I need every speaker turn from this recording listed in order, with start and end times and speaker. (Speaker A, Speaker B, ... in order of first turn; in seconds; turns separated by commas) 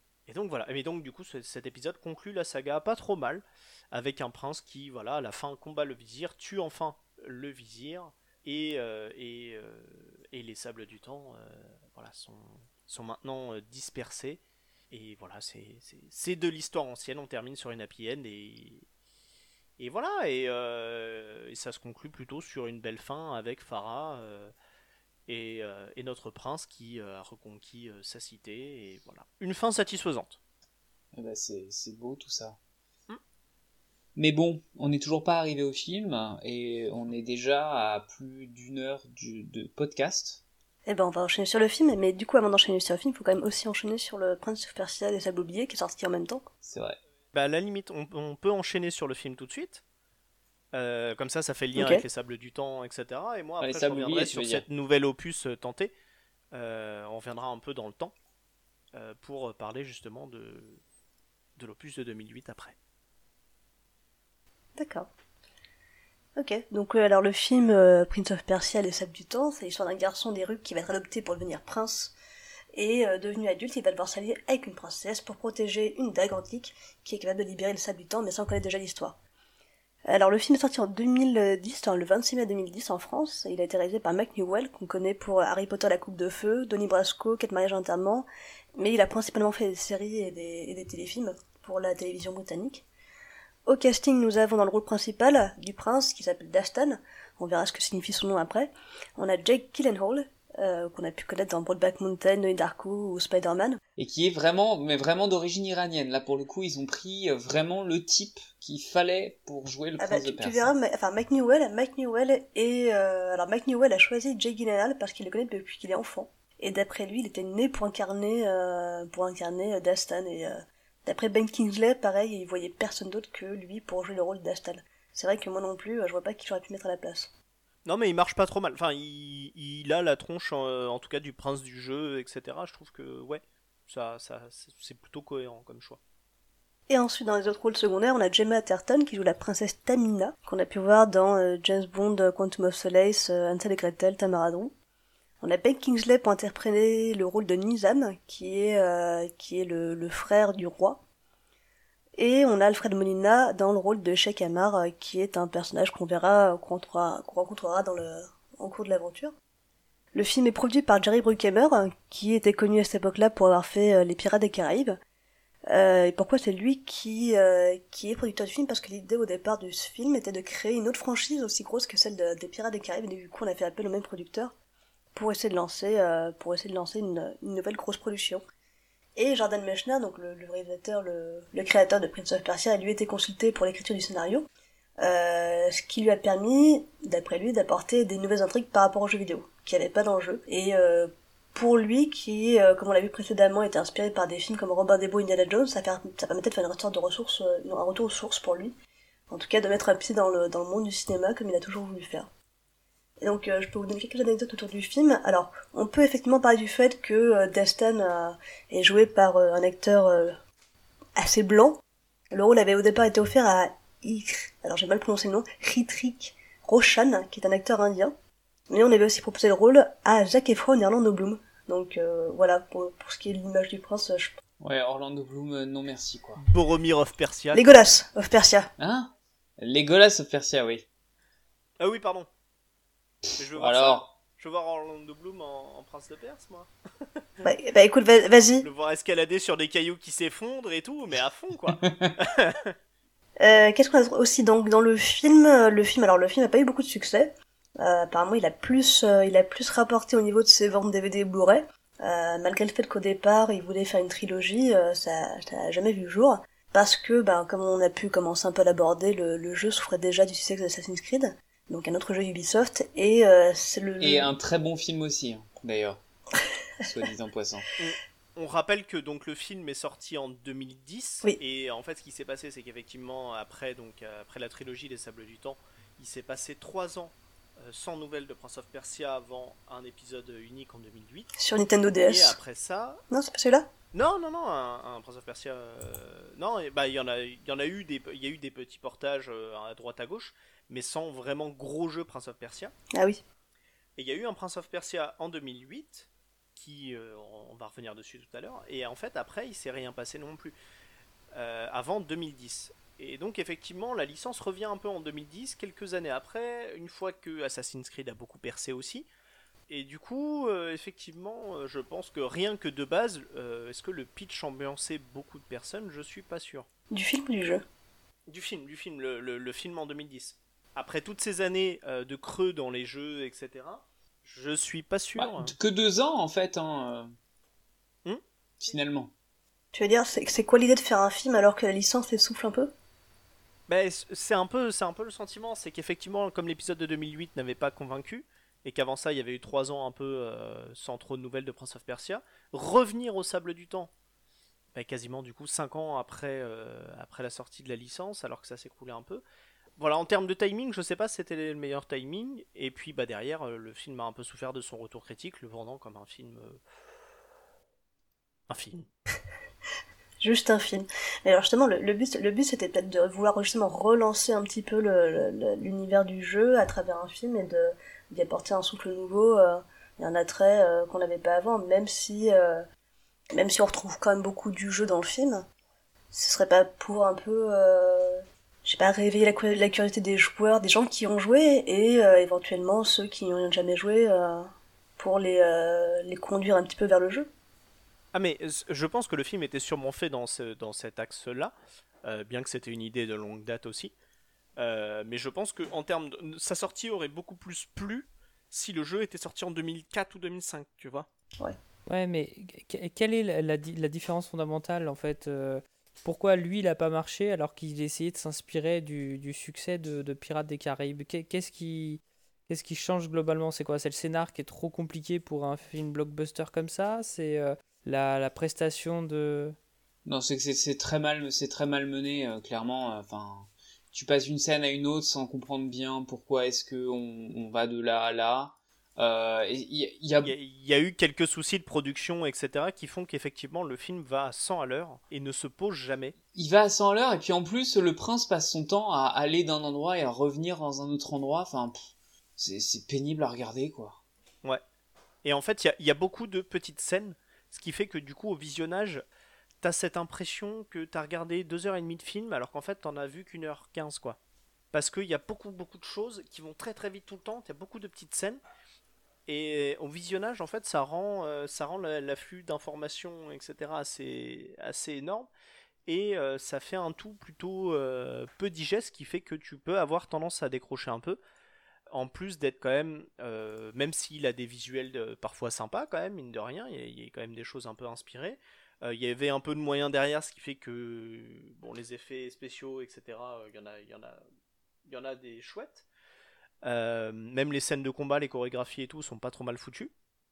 Speaker A: 0.3-18.8, Speaker A: 19.8-24.5, Speaker A: 25.3-30.4, Speaker B: 31.1-32.6, Speaker B: 34.1-40.4, Speaker C: 40.9-46.4, Speaker B: 46.6-47.0, Speaker A: 47.3-49.8, Speaker A: 50.7-55.9, Speaker C: 51.8-52.0, Speaker B: 53.6-54.6, Speaker A: 56.5-58.1, Speaker A: 58.9-60.8, Speaker A: 61.6-62.8, Speaker C: 64.8-65.1, Speaker C: 66.3-72.1, Speaker C: 72.7-79.2, Speaker C: 80.1-92.8, Speaker C: 93.7-103.8, Speaker B: 104.0-110.7, Speaker C: 110.0-127.3, Speaker A: 127.8-136.0, Speaker C: 136.9-144.7, Speaker C: 145.4-151.0, Speaker C: 152.2-159.3, Speaker C: 160.1-165.0, Speaker C: 165.7-174.5, Speaker C: 175.1-178.4, Speaker C: 179.2-184.5, Speaker C: 185.0-198.7, Speaker C: 199.3-202.3, Speaker C: 203.2-210.4, Speaker C: 211.2-211.8, Speaker C: 212.3-218.1, Speaker C: 218.7-224.4, Speaker B: 224.6-226.4, Speaker A: 226.4-227.6, Speaker C: 227.5-228.7, Speaker B: 228.8-230.8, Speaker A: 231.8-232.3, Speaker B: 233.3-234.1, Speaker A: 233.4-236.7, Speaker C: 237.4-238.7, Speaker A: 238.6-242.7, Speaker B: 241.8-242.1, Speaker C: 243.4-264.4, Speaker B: 264.0-266.0, Speaker B: 266.8-267.6, Speaker A: 267.8-281.3, Speaker C: 281.4-282.4, Speaker A: 282.0-283.0, Speaker C: 283.1-283.7, Speaker A: 283.9-292.7, Speaker C: 292.9-293.2, Speaker A: 294.0-300.6, Speaker A: 301.3-309.1, Speaker A: 309.7-316.7, Speaker C: 316.9-317.6, Speaker A: 318.3-325.5, Speaker B: 325.1-327.1, Speaker B: 328.6-329.1, Speaker C: 329.7-332.7, Speaker A: 333.7-343.9, Speaker A: 344.7-349.2, Speaker A: 349.8-356.6, Speaker A: 358.5-358.9, Speaker C: 360.2-372.6, Speaker C: 373.3-375.4, Speaker C: 376.1-387.3, Speaker A: 388.1-393.9, Speaker A: 394.6-401.1, Speaker D: 401.9-419.6, Speaker B: 420.1-430.3, Speaker A: 430.2-436.1, Speaker B: 436.3-444.0, Speaker A: 445.2-449.0, Speaker A: 449.6-454.2, Speaker A: 454.7-458.4, Speaker A: 459.3-465.3, Speaker A: 465.9-471.2, Speaker A: 471.9-484.2, Speaker A: 484.9-485.8, Speaker A: 486.6-489.9